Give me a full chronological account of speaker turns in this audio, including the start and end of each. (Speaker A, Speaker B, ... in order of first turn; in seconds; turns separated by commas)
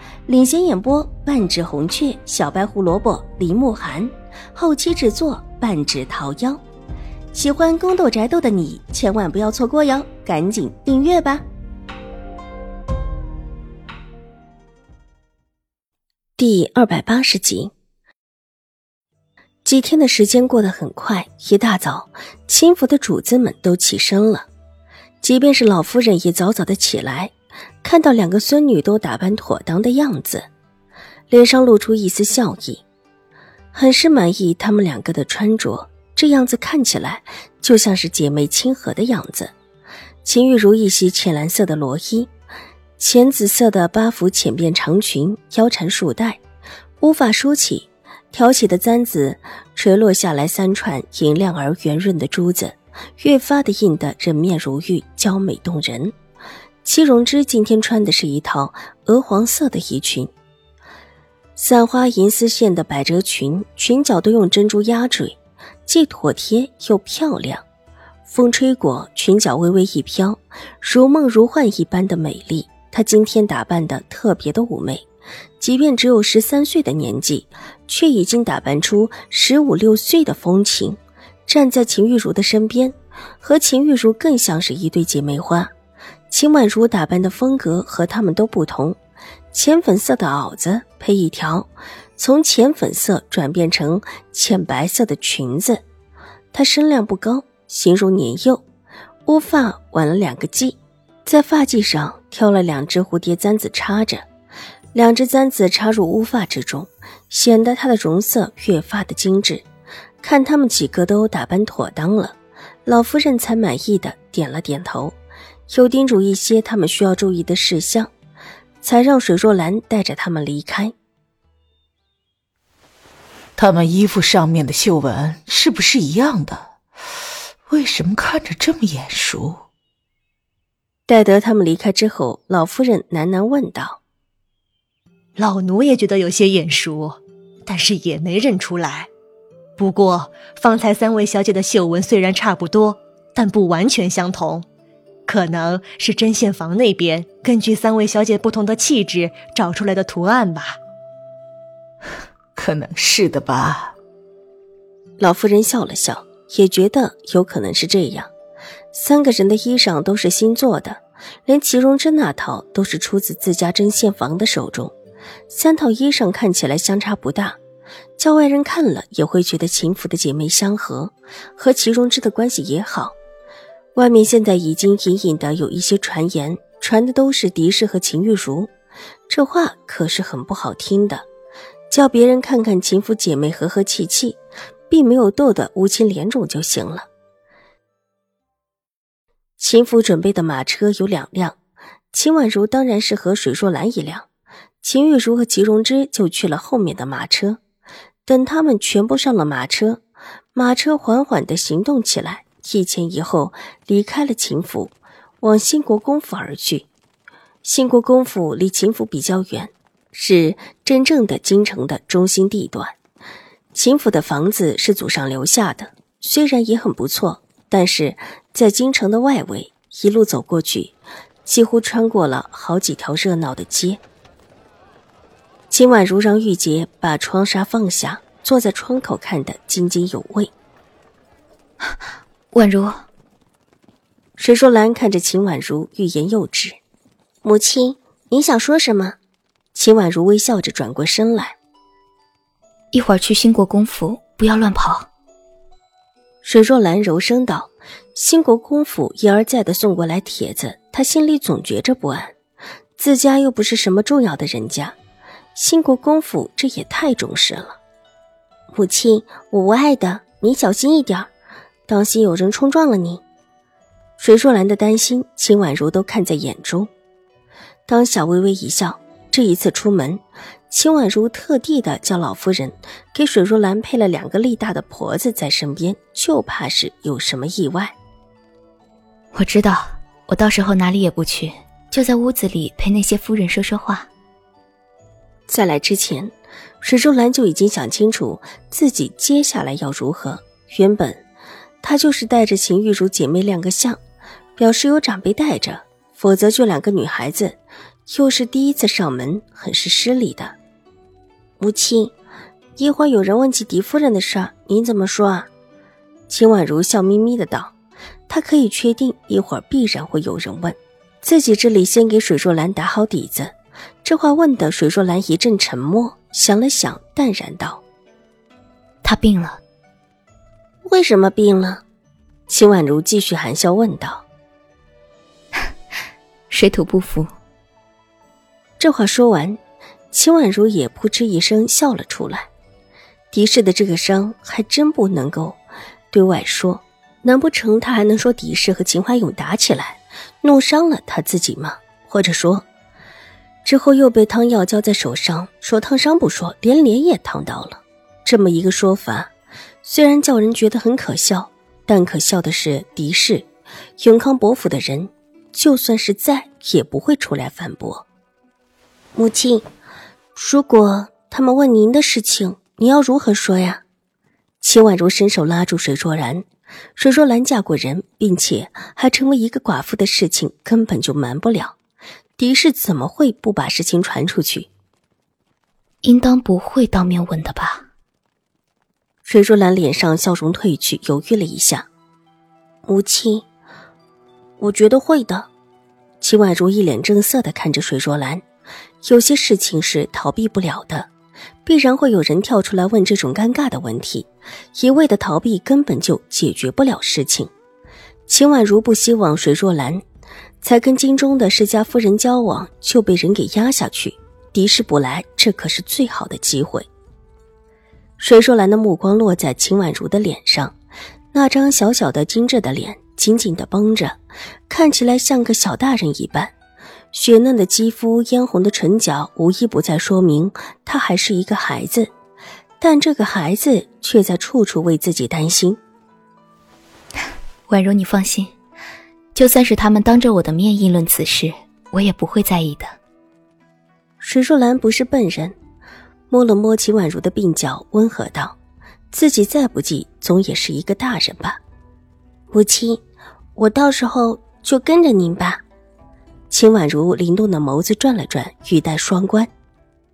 Speaker A: 0.3-6.6, Speaker A: 7.3-11.4, Speaker A: 16.4-17.7, Speaker A: 19.6-24.5, Speaker A: 25.2-30.4, Speaker A: 31.3-32.8, Speaker A: 33.7-39.5, Speaker A: 40.2-42.3, Speaker A: 43.0-46.4, Speaker A: 47.0-56.1, Speaker A: 56.8-60.3, Speaker A: 61.5-67.6, Speaker A: 68.2-75.1, Speaker A: 75.6-85.7, Speaker A: 86.3-89.0, Speaker A: 89.5-95.8, Speaker A: 96.5-98.6, Speaker A: 99.2-104.2, Speaker A: 104.9-109.7, Speaker A: 110.2-115.2, Speaker A: 115.7-118.1, Speaker A: 118.8-120.9, Speaker B: 123.6-126.7, Speaker B: 127.7-129.6, Speaker A: 131.1-134.0, Speaker C: 135.4-139.1, Speaker C: 139.8-144.7, Speaker C: 145.3-150.8, Speaker B: 152.6-153.9, Speaker A: 155.2-158.3, Speaker A: 158.9-164.9, Speaker A: 165.5-167.6, Speaker A: 168.2-173.2, Speaker A: 173.9-178.7, Speaker A: 179.3-181.2, Speaker A: 181.9-184.4, Speaker A: 184.9-187.1, Speaker A: 189.6-191.6, Speaker A: 192.1-194.3, Speaker A: 194.8-197.6, Speaker A: 198.2-200.0, Speaker A: 200.6-206.9, Speaker A: 207.6-213.0, Speaker A: 213.7-224.0, Speaker A: 225.7-230.5, Speaker D: 232.5-233.0, Speaker A: 234.4-236.8, Speaker A: 237.4-239.2, Speaker A: 239.7-241.6, Speaker D: 242.9-245.1, Speaker A: 246.4-252.3, Speaker A: 253.0-255.0, Speaker A: 255.5-257.8, Speaker A: 258.7-261.3, Speaker A: 261.9-263.2, Speaker A: 264.2-266.9, Speaker A: 267.9-277.9, Speaker D: 279.3-284.1, Speaker A: 285.5-291.2, Speaker A: 291.8-294.0, Speaker A: 294.6-297.6, Speaker A: 298.1-300.5, Speaker A: 301.6-302.1, Speaker A: 302.8-305.5, Speaker A: 306.3-307.7, Speaker A: 308.3-317.8, Speaker D: 319.0-319.6, Speaker A: 320.8-321.8, Speaker A: 322.5-324.2, Speaker D: 326.5-327.3, Speaker A: 328.8-329.6, Speaker A: 330.1-332.5, Speaker A: 333.3-335.6, Speaker A: 336.1-342.6, Speaker A: 343.6-349.3, Speaker A: 349.8-353.5, Speaker A: 354.0-358.1, Speaker A: 359.1-359.6, Speaker A: 360.3-363.8, Speaker A: 364.6-366.4, Speaker A: 366.9-371.8, Speaker A: 372.4-374.7, Speaker D: 376.0-377.8, Speaker A: 379.2-381.9, Speaker A: 382.9-383.4, Speaker A: 384.6-385.5, Speaker A: 386.2-388.4, Speaker A: 389.0-391.1, Speaker A: 391.6-397.5, Speaker A: 398.3-400.0, Speaker A: 400.6-406.9, Speaker A: 408.2-410.8, Speaker A: 411.3-416.5, Speaker A: 417.1-422.1, Speaker A: 422.8-425.8, Speaker D: 427.7-428.5, Speaker D: 429.3-432.9, Speaker A: 434.2-435.5, Speaker A: 436.3-438.6, Speaker A: 439.1-441.6, Speaker A: 442.5-443.0, Speaker A: 443.6-445.6, Speaker A: 446.5-449.5